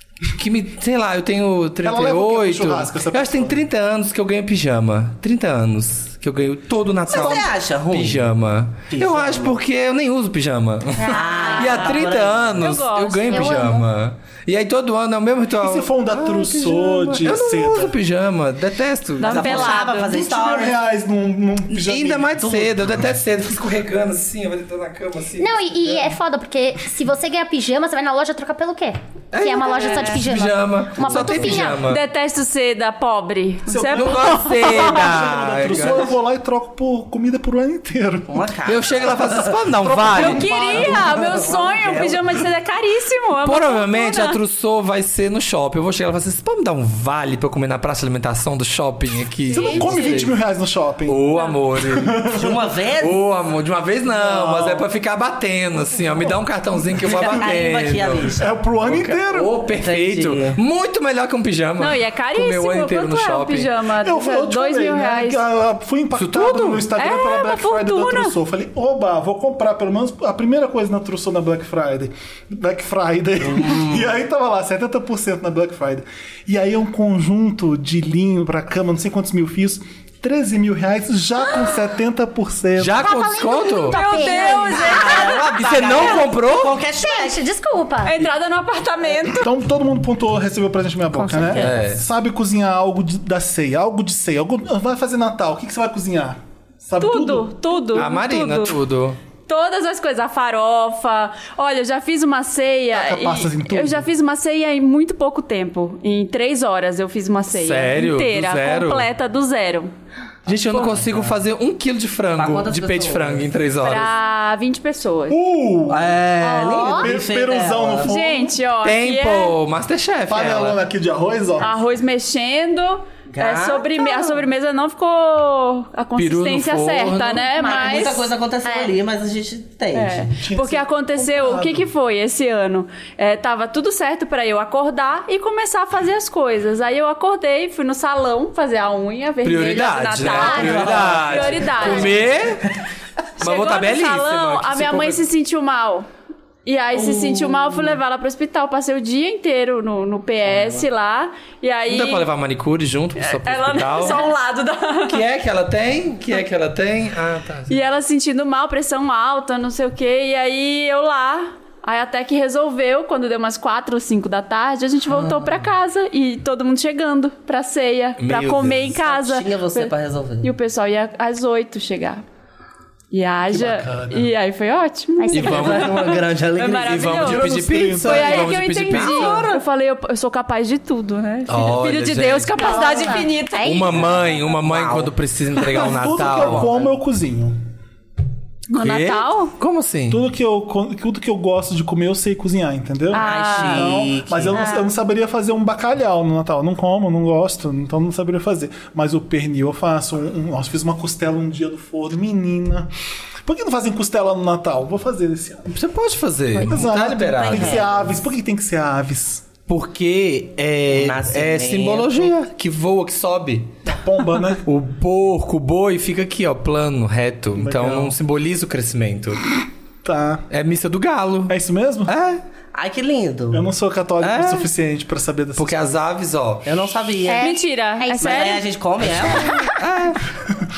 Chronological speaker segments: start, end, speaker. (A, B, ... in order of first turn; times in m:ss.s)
0:00.3-0:19.8 A
0:01.8-0:03.6 B
0:07.1-0:08.2 C
0:07.1-0:07.4 B
0:08.9-0:09.6 C
0:11.0-0:12.6 C
0:11.1-0:11.7 D
0:11.1-0:13.8 E
0:13.3-0:13.8 D
0:15.6-0:17.9 B
0:19.2-0:20.2 E
0:19.2-0:20.8 C
0:19.9-0:22.6 B
0:21.7-0:26.1 A
0:25.4-0:31.9 D
0:29.3-0:32.0 A
0:29.7-0:30.2 E
0:31.6-0:35.1 E
0:33.7-0:38.5 B
0:33.9-0:36.1 A
0:38.3-0:39.6 C
0:38.6-0:40.5 A
0:39.8-0:41.3 B
0:40.1-0:44.4 E
0:40.4-0:42.4 C
0:43.4-0:50.3 A
0:49.5-0:50.2 E
0:49.5-0:51.2 B
0:51.1-0:52.2 A
0:51.8-0:52.7 B
0:52.3-0:53.2 C
0:53.0-1:03.7 A
0:54.1-0:54.8 B
0:57.0-0:58.5 C
0:58.3-0:59.6 B
0:59.8-1:00.6 C
1:01.8-1:05.4 E
1:04.0-1:23.1 B
1:06.2-1:06.9 A
1:06.9-1:08.4 E
1:13.5-1:14.1 C
1:22.8-1:24.4 A
1:23.0-1:26.2 D
1:23.7-1:25.6 E
1:24.4-1:27.4 C
1:25.1-1:26.8 A
1:26.9-1:28.2 D
1:28.0-1:29.5 E
1:29.2-1:37.5 B
1:31.1-1:31.7 D
1:31.5-1:32.0 A
1:37.0-1:38.8 E
1:37.9-1:39.2 A
1:39.5-1:49.9 E
1:42.9-1:44.0 B
1:47.5-1:49.1 A
1:50.4-1:54.1 A
1:50.8-1:51.3 C
1:52.3-1:53.5 C
1:53.8-1:55.4 E
1:55.3-1:56.2 B
1:55.9-1:58.1 C
1:56.4-1:57.1 D
1:56.9-1:58.6 B
1:58.0-1:59.6 E
1:58.8-2:00.8 A
2:00.3-2:01.8 B
2:01.6-2:08.3 E
2:03.3-2:04.4 C
2:06.2-2:07.5 A
2:07.6-2:08.9 D
2:07.6-2:10.3 C
2:09.9-2:22.2 E
2:10.4-2:11.9 B
2:19.4-2:22.7 A
2:20.3-2:20.8 D
2:20.4-2:22.7 C
2:23.4-2:26.1 E
2:23.4-2:25.2 A
2:26.6-2:32.2 E
2:26.9-2:28.0 C
2:31.9-2:34.2 A
2:33.2-2:35.2 E
2:35.0-2:37.8 A
2:37.7-2:52.2 E
2:45.1-2:45.4 C
2:48.2-2:49.0 A
2:49.0-2:50.5 C
2:53.1-3:04.1 E
2:53.5-2:54.3 B
2:55.2-2:55.9 D
2:55.3-2:56.2 A
2:55.4-2:57.5 C
2:56.8-2:59.5 A
2:57.3-2:58.5 B
2:58.9-2:59.6 C
3:01.5-3:02.8 A
3:02.6-3:04.0 D
3:03.6-3:06.7 A
3:04.6-3:06.9 C
3:05.6-3:07.6 B
3:08.7-3:09.5 E
3:08.7-3:10.2 A
3:10.1-3:22.9 B
3:13.1-3:14.9 E
3:13.1-3:14.7 C
3:23.4-3:25.7 B
3:25.7-3:27.9 A
3:26.5-3:29.5 B
3:27.4-3:28.1 C
3:29.6-3:33.7 A
3:30.9-3:32.3 C
3:33.8-3:34.6 B
3:34.6-3:39.4 A
3:37.5-3:38.1 B
3:40.0-3:40.4 B
3:40.5-3:42.4 A
3:41.5-3:42.1 B
3:42.7-3:43.7 C
3:43.5-3:45.8 B
3:44.2-3:44.6 A
3:45.6-3:46.7 A
3:46.6-3:47.5 C
3:47.2-3:48.6 D
3:47.4-3:48.6 E
3:48.2-3:49.6 C
3:49.2-3:50.2 A
3:49.4-3:49.8 D